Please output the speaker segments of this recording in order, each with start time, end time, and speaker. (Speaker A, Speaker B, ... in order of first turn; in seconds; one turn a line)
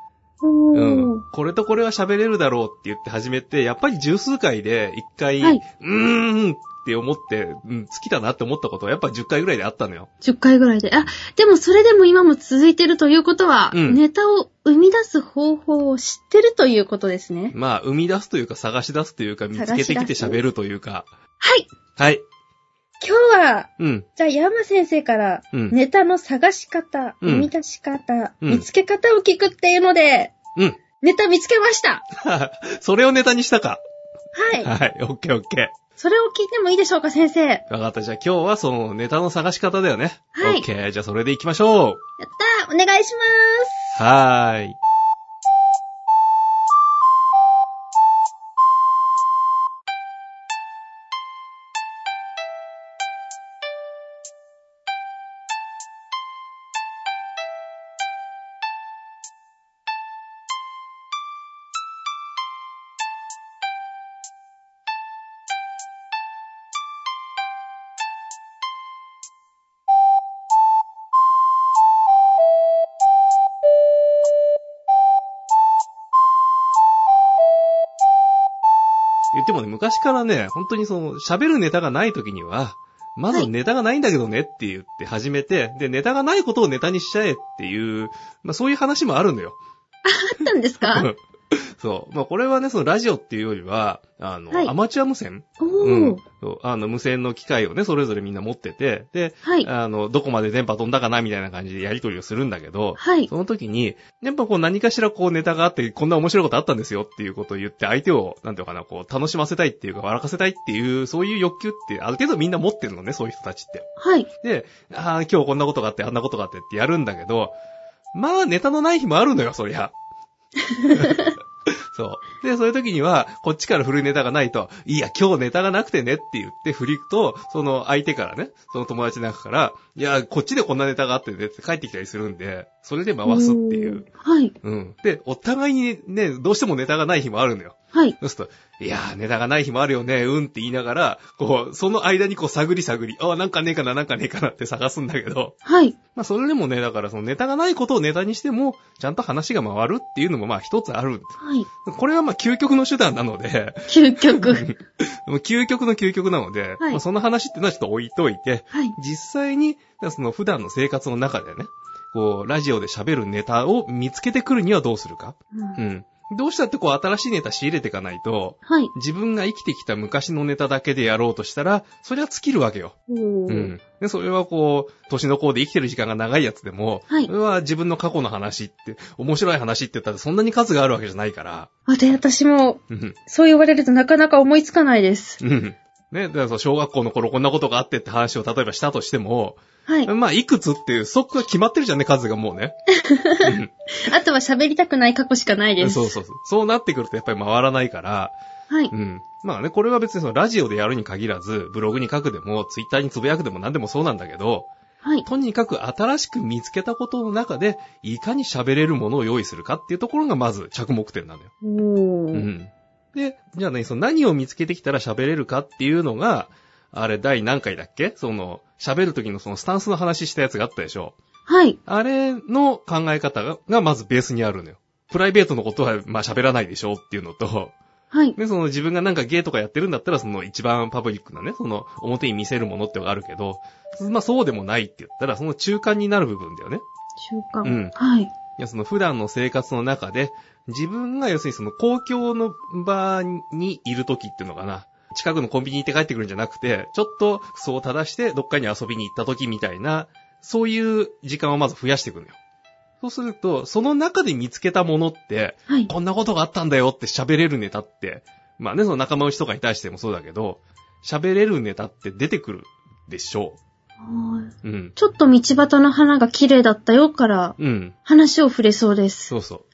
Speaker A: 0.4-1.2
Speaker B: 0.7-10.1
Speaker A: 10.2-17.5
Speaker B: 13.7-14.0
Speaker B: 17.5-21.1
Speaker A: 19.6-20.4
Speaker A: 21.4-21.7
Speaker B: 22.0-22.2
Speaker A: 23.0-30.4
Speaker B: 23.8-24.1
Speaker B: 27.2-27.5
Speaker A: 31.0-32.0
Speaker B: 32.1-33.8
Speaker A: 34.4-34.7
Speaker B: 34.6-35.7
Speaker A: 36.0-37.6
Speaker B: 37.7-42.0
Speaker A: 40.4-40.7
Speaker A: 42.2-44.0
Speaker B: 43.9-44.8
Speaker B: 79.3-89.6
Speaker A: 90.0-91.1
Speaker B: 90.9-113.9
Speaker A: 95.6-96.2
Speaker A: 99.4-99.7
Speaker A: 103.0-103.3
Speaker A: 114.0-114.3
Speaker B: 114.4-117.5
Speaker B: 118.1-119.9
Speaker A: 120.7-121.3
Speaker B: 120.9-121.3
Speaker B: 121.9-134.1
Speaker A: 133.2-134.6
Speaker B: 134.6-145.6
Speaker A: 145.7-146.0
Speaker B: 146.2-151.3
Speaker A: 151.4-151.7
Speaker B: 151.8-153.8
Speaker A: 153.9-154.7
Speaker B: 154.3-173.0
Speaker A: 165.5-165.8
Speaker A: 168.7-168.9
Speaker A: 173.1-173.7
Speaker B: 173.5-181.7
Speaker A: 181.9-185.4
Speaker B: 182.9-183.2
Speaker B: 185.4-192.7
Speaker A: 192.9-196.2
Speaker B: 193.4-193.7
Speaker B: 195.8-198.4
Speaker B: 198.9-204.7
Speaker B: 205.3-211.5
Speaker A: 211.6-212.5
Speaker B: 212.3-221.2
Speaker A: 221.5-221.8
Speaker B: 221.9-227.7
Speaker B: 228.4-236.8
Speaker A: 237.2-238.3
Speaker B: 237.6-237.9
Speaker B: 238.6-252.4
Speaker B: 253.0-263.6
Speaker A: 264.0-269.3
Speaker B: 264.6-264.9
Speaker B: 267.6-267.9
Speaker B: 269.3-269.6